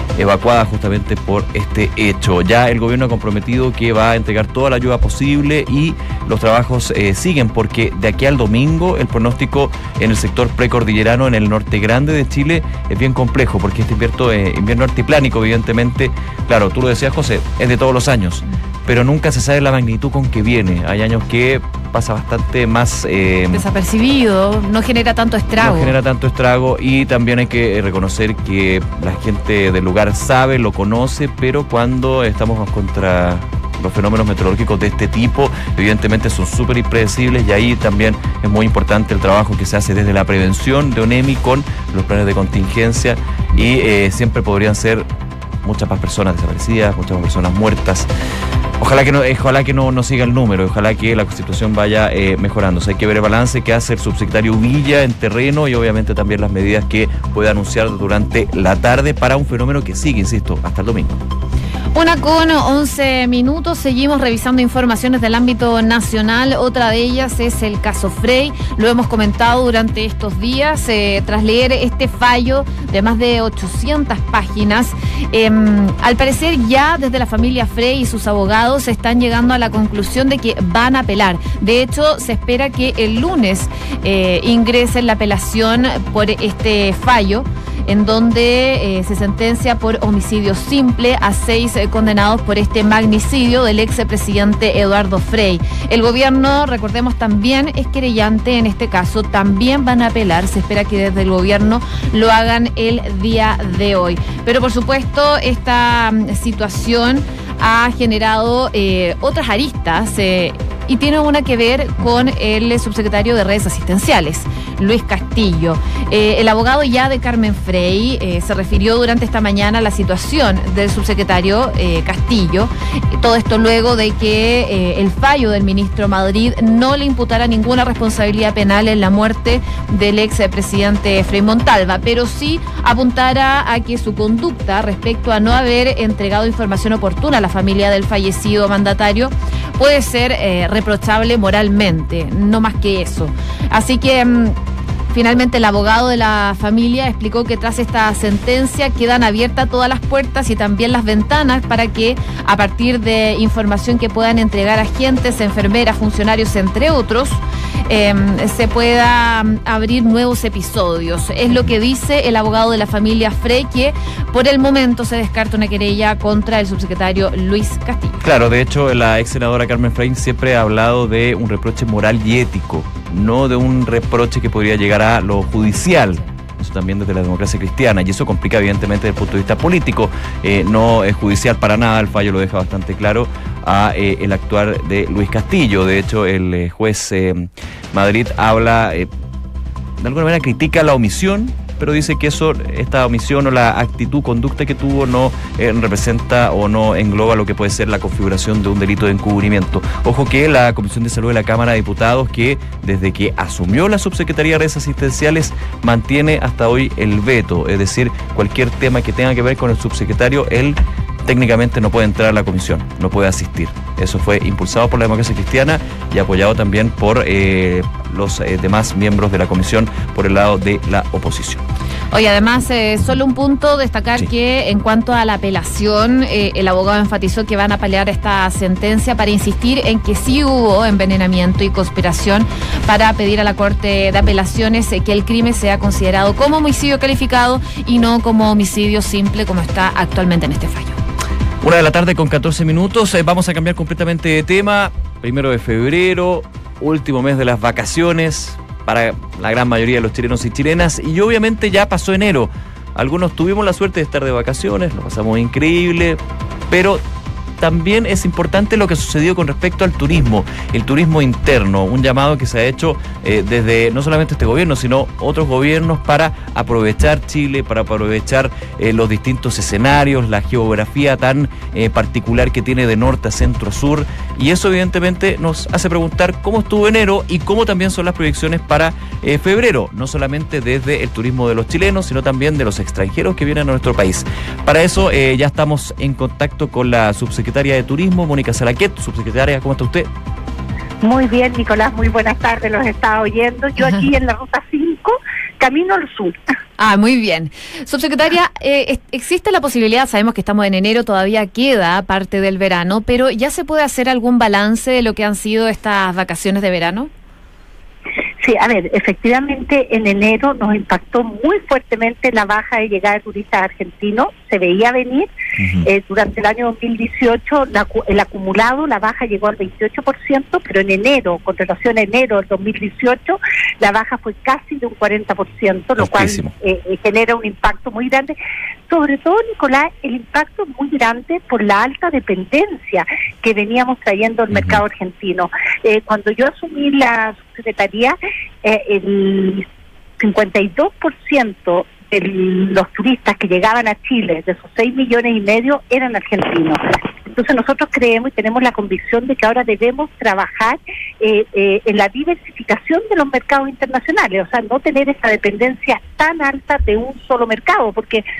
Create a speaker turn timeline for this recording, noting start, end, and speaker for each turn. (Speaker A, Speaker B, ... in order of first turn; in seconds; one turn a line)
Speaker A: 0.1-23.6
Speaker B: 23.5-25.9
Speaker A: 25.6-45.1
Speaker A: 45.6-48.1
Speaker A: 48.8-61.2
Speaker B: 61.9-144.6
Speaker B: 145.1-168.2
Speaker A: 168.2-189.1
Speaker A: 190.0-221.6
Speaker B: 222.1-241.0
Speaker A: 241.6-257.0
Speaker A: 257.6-290.1
Speaker C: 291.0-296.4
Speaker B: 296.8-307.1
Speaker C: 308.4-315.3
Speaker A: 315.6-315.9
Speaker C: 315.8-328.4
Speaker A: 326.0-326.5
Speaker C: 328.9-339.6
Speaker A: 334.5-334.8
Speaker C: 340.2-358.2